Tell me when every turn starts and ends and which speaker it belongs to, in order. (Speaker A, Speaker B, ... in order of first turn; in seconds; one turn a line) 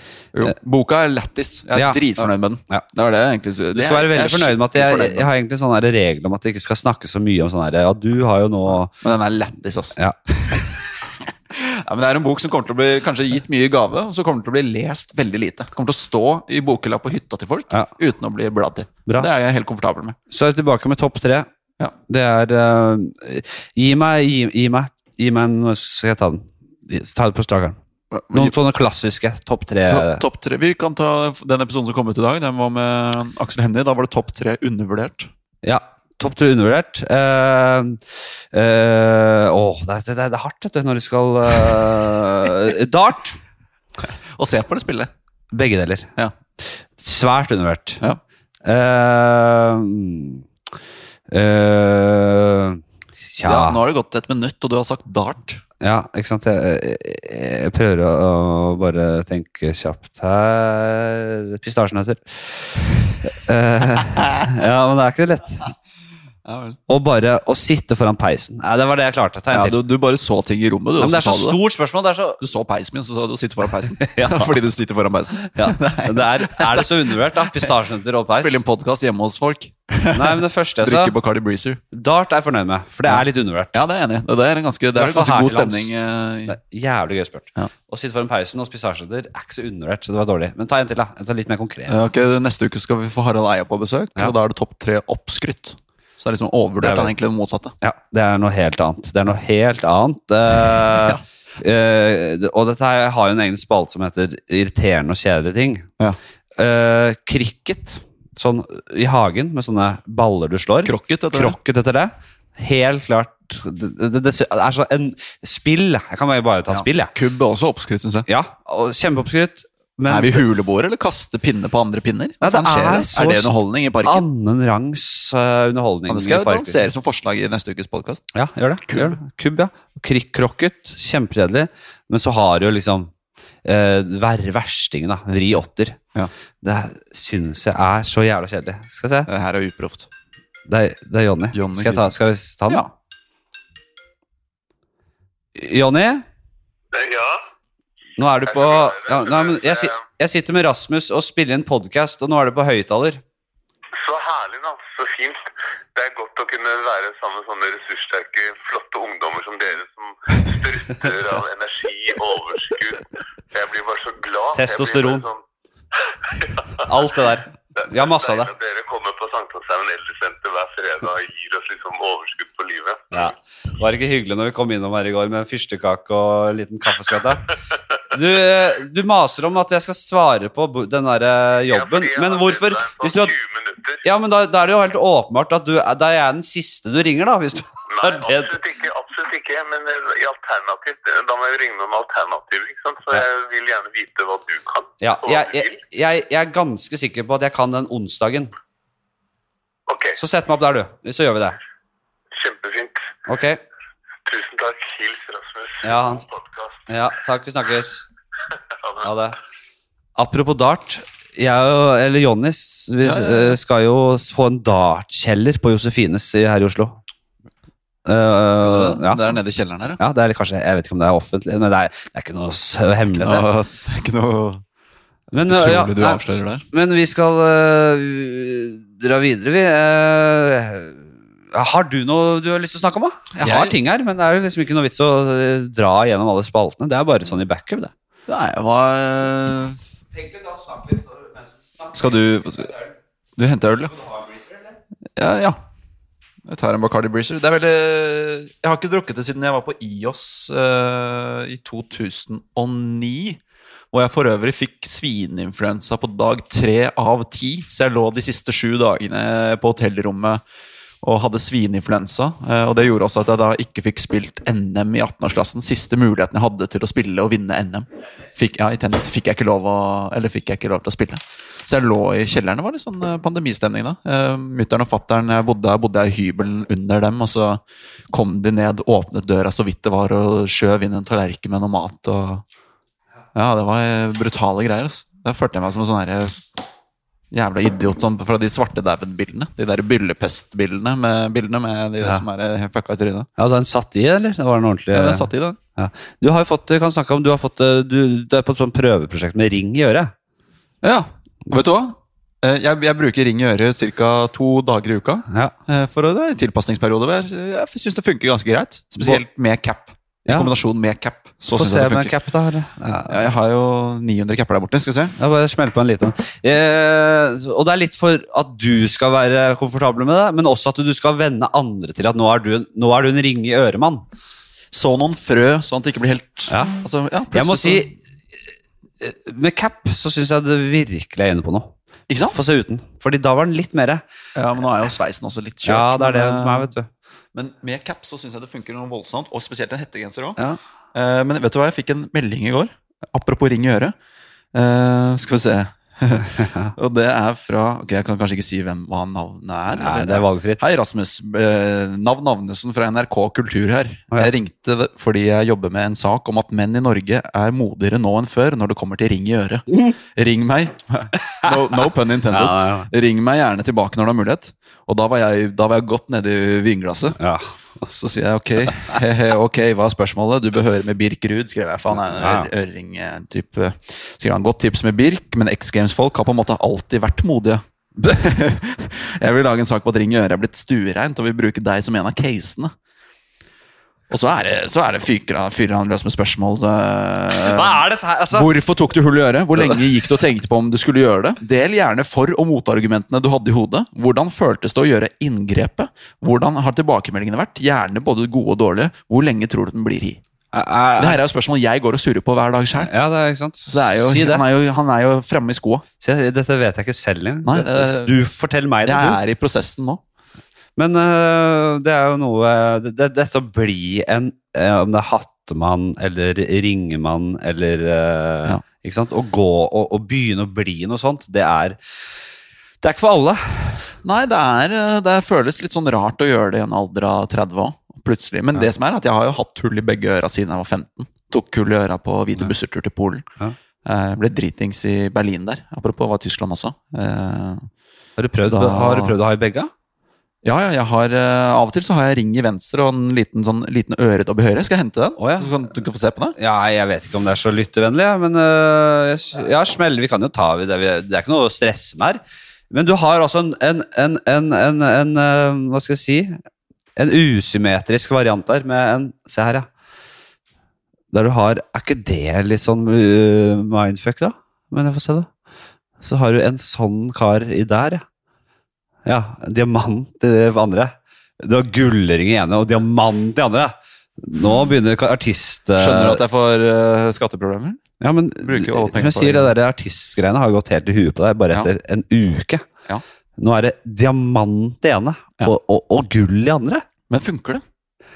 Speaker A: 0.3-5.3
Speaker B: 1.7-2.9
Speaker B: 3.7-8.9
Speaker A: 9.0-10.8
Speaker A: 11.5-20.2
Speaker B: 20.3-21.5
Speaker B: 22.0-27.8
Speaker A: 28.1-28.6
Speaker B: 28.3-30.2
Speaker A: 29.9-35.3
Speaker B: 35.6-43.4
Speaker A: 44.4-45.1
Speaker B: 45.5-46.1
Speaker B: 47.0-48.0
Speaker B: 48.6-50.4
Speaker B: 51.3-53.8
Speaker A: 53.4-55.6
Speaker B: 55.8-65.7
Speaker A: 66.5-66.8
Speaker B: 66.9-69.8
Speaker A: 69.5-71.6
Speaker B: 71.0-72.4
Speaker A: 72.4-77.7
Speaker B: 73.8-74.6
Speaker B: 75.5-78.6
Speaker A: 78.3-81.8
Speaker B: 80.1-81.1
Speaker B: 81.9-83.8
Speaker A: 83.1-86.5
Speaker B: 84.9-85.9
Speaker B: 86.5-92.0
Speaker A: 91.9-97.7
Speaker B: 96.8-97.1
Speaker B: 97.8-105.9
Speaker A: 100.9-101.2
Speaker B: 106.5-117.1
Speaker A: 110.8-111.6
Speaker A: 116.7-118.3
Speaker B: 118.3-120.5
Speaker A: 120.1-124.2
Speaker B: 122.4-126.9
Speaker A: 126.1-128.2
Speaker B: 128.3-133.1
Speaker A: 128.8-129.2
Speaker B: 133.6-136.0
Speaker B: 136.6-139.3
Speaker A: 139.3-140.1
Speaker B: 140.7-142.8
Speaker A: 141.5-142.1
Speaker B: 145.5-146.2
Speaker C: 146.9-147.4
Speaker B: 148.2-153.2
Speaker C: 148.5-150.0
Speaker C: 153.9-165.4
Speaker B: 164.5-165.2
Speaker C: 166.1-166.9
Speaker B: 166.8-168.5
Speaker C: 167.8-173.3
Speaker B: 173.1-177.4
Speaker B: 178.1-183.3
Speaker C: 181.7-184.0
Speaker B: 184.0-188.6
Speaker C: 187.9-195.8
Speaker B: 195.0-198.5
Speaker C: 199.9-200.2
Speaker B: 200.2-201.6
Speaker C: 202.3-203.1
Speaker B: 203.3-203.6
Speaker C: 204.2-206.8
Speaker B: 205.8-206.2
Speaker B: 206.9-208.1
Speaker C: 208.8-209.1
Speaker B: 209.0-209.4
Speaker B: 210.2-217.0
Speaker A: 213.0-213.6
Speaker B: 218.0-219.3
Speaker A: 218.6-220.0
Speaker B: 220.0-223.5
Speaker A: 223.1-224.6
Speaker B: 225.3-237.9
Speaker A: 225.4-226.6
Speaker A: 233.3-233.8
Speaker A: 238.3-239.8
Speaker B: 240.1-242.9
Speaker A: 241.9-242.7
Speaker A: 243.4-243.9
Speaker B: 243.9-244.8
Speaker A: 245.2-245.6
Speaker A: 246.5-253.4
Speaker A: 253.9-260.4
Speaker A: 261.0-277.6
Speaker A: 278.1-282.4
Speaker A: 283.3-286.4
Speaker A: 287.3-293.3
Speaker B: 293.4-300.1
Speaker A: 294.9-295.6
Speaker A: 300.8-312.1
Speaker B: 305.3-305.5
Speaker B: 310.2-310.5
Speaker B: 311.5-313.3
Speaker A: 313.1-315.1
Speaker B: 315.2-324.0
Speaker A: 324.7-327.9
Speaker B: 326.5-326.7
Speaker B: 327.3-328.4
Speaker B: 329.0-331.7
Speaker A: 332.1-332.4
Speaker B: 332.2-334.0
Speaker A: 334.3-336.7
Speaker B: 335.6-336.9
Speaker A: 337.3-340.4
Speaker A: 340.9-343.9
Speaker A: 344.5-367.2
Speaker B: 346.4-346.7
Speaker B: 349.7-350.6
Speaker B: 361.4-362.9
Speaker B: 367.2-367.5
Speaker A: 367.9-382.7
Speaker B: 371.9-372.5
Speaker A: 384.1-400.2
Speaker B: 387.4-388.5
Speaker B: 400.5-401.2
Speaker A: 401.0-402.9
Speaker B: 402.8-404.4
Speaker A: 403.7-405.8
Speaker B: 406.0-409.2
Speaker A: 407.4-408.1
Speaker A: 408.8-410.0
Speaker B: 410.8-421.8
Speaker B: 422.8-423.8
Speaker A: 424.0-433.2
Speaker A: 433.8-437.7
Speaker B: 438.2-439.7
Speaker A: 438.4-439.2
Speaker A: 440.4-446.4
Speaker B: 445.2-445.5
Speaker B: 446.4-456.4
Speaker B: 456.9-459.7
Speaker B: 461.1-465.3
Speaker B: 466.0-468.0
Speaker B: 469.0-476.2
Speaker A: 475.8-477.8
Speaker B: 478.0-482.6
Speaker A: 478.4-479.5
Speaker B: 483.4-486.8
Speaker A: 487.1-487.6